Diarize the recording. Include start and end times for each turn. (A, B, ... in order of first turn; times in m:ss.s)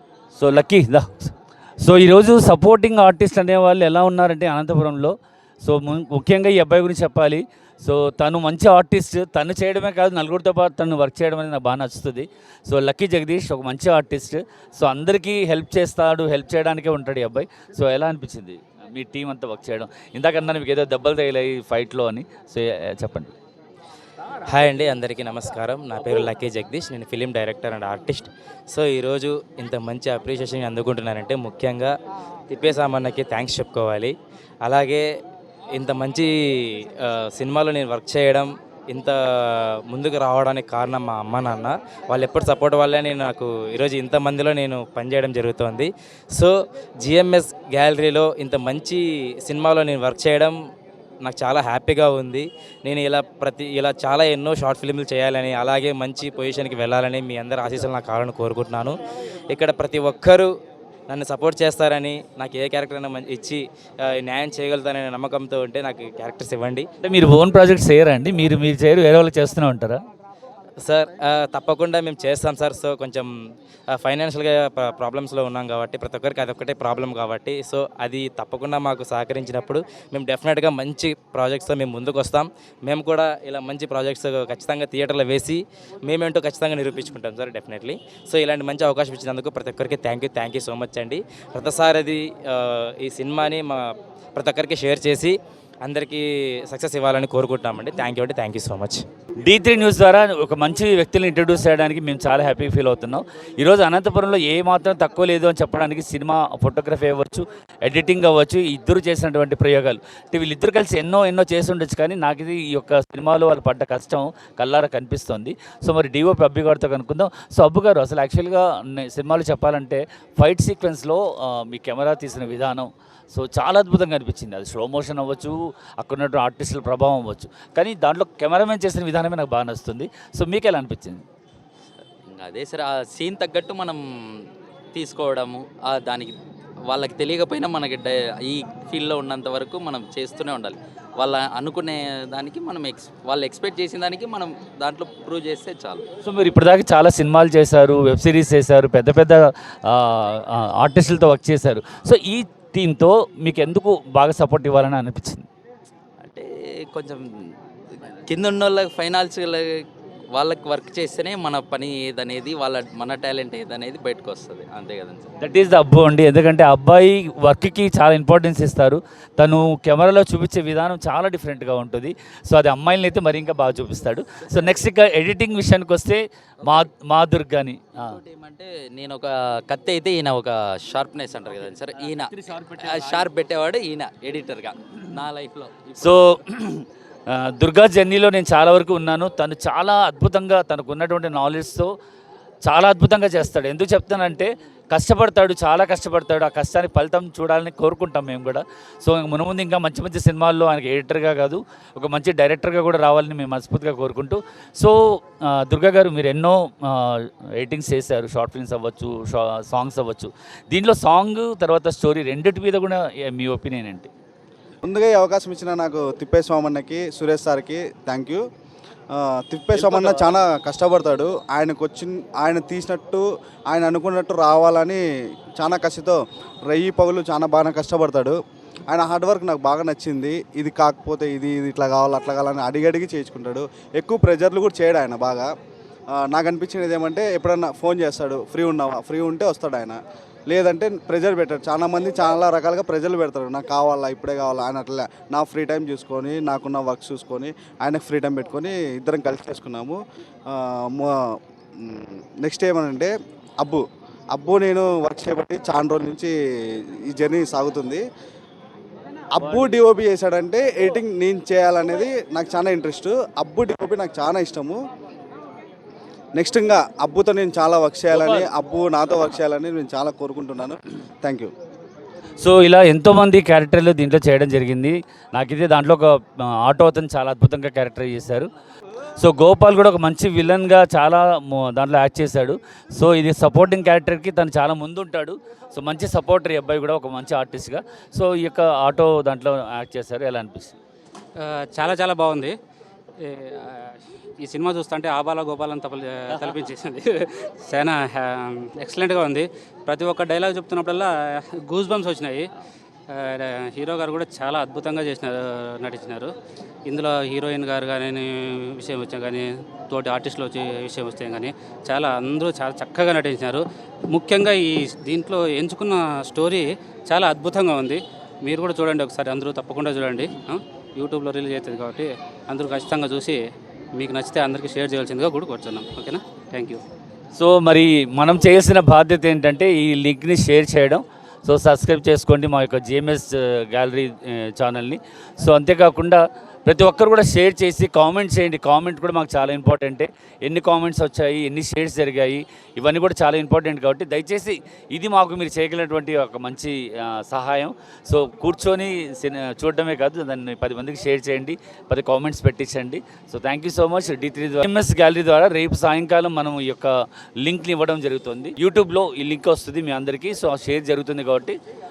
0:00.4-0:23.3 A
0:24.5-0:31.9 B
0:32.5-0:34.1 B
0:34.6-0:35.0 B
0:35.8-0:36.3 B
0:37.0-0:39.2 B
0:39.9-0:46.5 B
0:47.0-0:50.5 B
0:51.2-0:58.9 B
0:59.5-1:00.5 B
1:01.1-1:03.6 B
1:04.1-1:06.8 B
1:07.0-1:10.0 A
1:10.8-1:13.3 B
1:13.9-1:33.8 B
1:34.4-1:39.0 B
1:39.4-2:11.2 A
2:12.3-2:14.0 C
2:14.9-2:16.3 C
2:16.9-2:26.0 C
2:26.2-2:35.5 A
2:36.2-2:37.2 C
2:38.3-2:39.8 C
2:40.3-2:45.3 C
2:45.4-2:58.2 A
2:58.1-3:06.3 C
3:01.9-3:03.3 A
3:06.0-3:11.9 A
3:12.6-3:34.1 A
3:34.8-3:38.4 D
3:39.1-3:45.0 D
3:39.7-3:40.3 A
3:45.6-3:48.4 D
3:48.9-3:55.5 D
3:56.3-4:10.0 D
4:10.5-4:11.1 D
4:11.8-4:16.3 D
4:17.1-4:18.0 D
4:19.3-4:24.8 D
4:19.4-4:19.7 A
4:26.4-4:31.5 D
4:28.1-4:28.5 A
4:32.4-4:38.5 A
4:39.2-4:50.7 A
4:51.4-4:52.6 E
4:53.2-5:02.5 E
5:03.1-5:06.3 E
5:06.9-5:26.8 E
5:27.4-6:01.6 A